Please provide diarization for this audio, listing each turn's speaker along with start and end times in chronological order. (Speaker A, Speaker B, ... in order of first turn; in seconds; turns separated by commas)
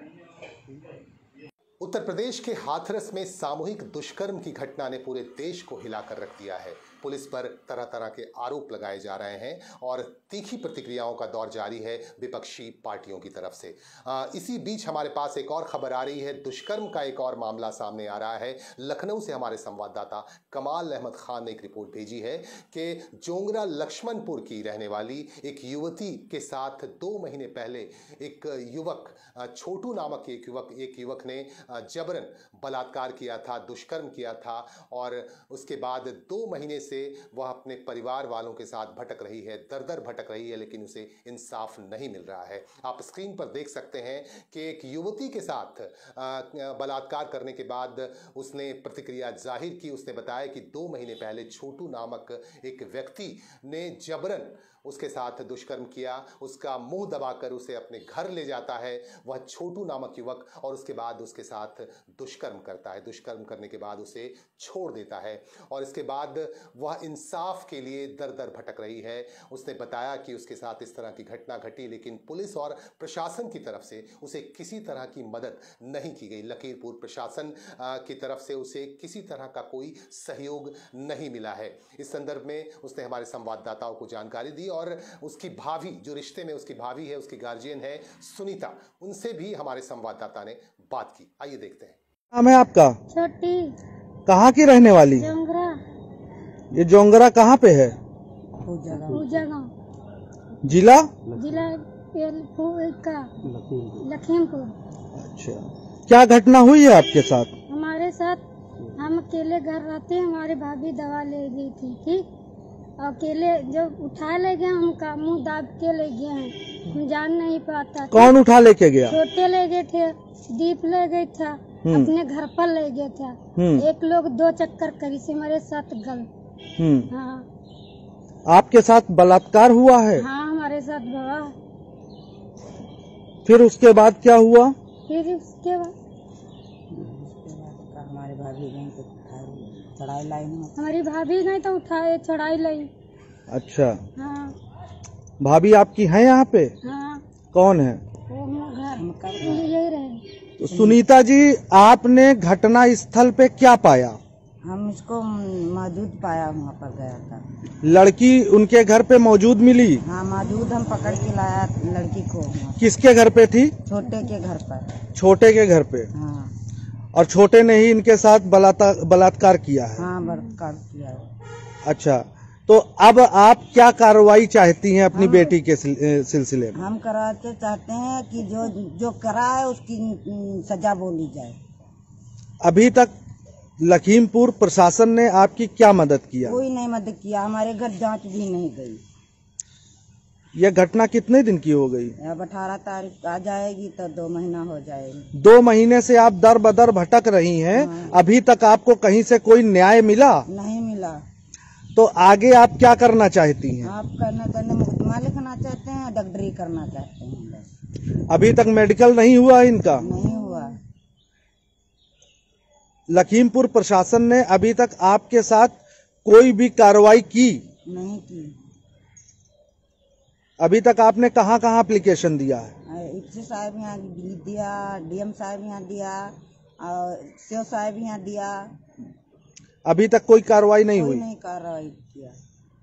Speaker A: 1.8-92.0, Speaker B: 92.3-93.0, Speaker C: 93.1-93.7, Speaker B: 94.3-95.3, Speaker C: 95.1-95.8, Speaker B: 96.7-98.0, Speaker D: 98.6-99.4, Speaker C: 99.1-99.7, Speaker B: 100.6-101.2, Speaker C: 101.3-103.3, Speaker C: 103.8-104.7, Speaker B: 105.2-107.5, Speaker C: 107.7-108.4, Speaker C: 109.0-112.2, Speaker C: 113.0-118.3, Speaker B: 118.1-119.2, Speaker C: 119.1-126.3, Speaker B: 121.8-122.1, Speaker B: 123.6-123.9, Speaker B: 126.8-127.1, Speaker C: 127.1-127.5, Speaker B: 128.5-130.2, Speaker C: 130.2-131.5, Speaker B: 133.4-134.8, Speaker C: 135.1-135.9, Speaker D: 136.9-140.8, Speaker C: 140.8-142.9, Speaker B: 143.5-144.0, Speaker C: 144.2-144.6, Speaker B: 145.4-146.7, Speaker C: 146.8-147.2, Speaker B: 147.5-148.0, Speaker C: 148.3-150.2, Speaker D: 148.9-149.7, Speaker B: 150.6-154.2, Speaker D: 150.7-151.0, Speaker D: 154.6-157.4, Speaker B: 157.8-160.0, Speaker D: 160.0-162.8, Speaker B: 162.8-163.7, Speaker D: 163.9-165.0, Speaker B: 165.2-166.1, Speaker D: 166.1-166.5, Speaker B: 167.2-170.1, Speaker D: 169.9-171.2, Speaker B: 171.9-176.8, Speaker D: 175.1-175.6, Speaker D: 176.7-181.6, Speaker B: 182.6-183.1, Speaker B: 183.8-186.6, Speaker D: 186.5-189.0, Speaker B: 190.6-192.1, Speaker D: 192.2-195.3, Speaker B: 195.4-200.4, Speaker D: 197.7-198.2, Speaker D: 200.5-201.2, Speaker B: 202.0-203.9, Speaker D: 203.8-207.7, Speaker B: 208.3-210.1, Speaker D: 210.0-210.8, Speaker B: 213.1-217.6, Speaker D: 217.9-218.5, Speaker B: 220.6-222.7, Speaker D: 222.9-228.7, Speaker B: 229.9-231.2, Speaker D: 230.9-232.3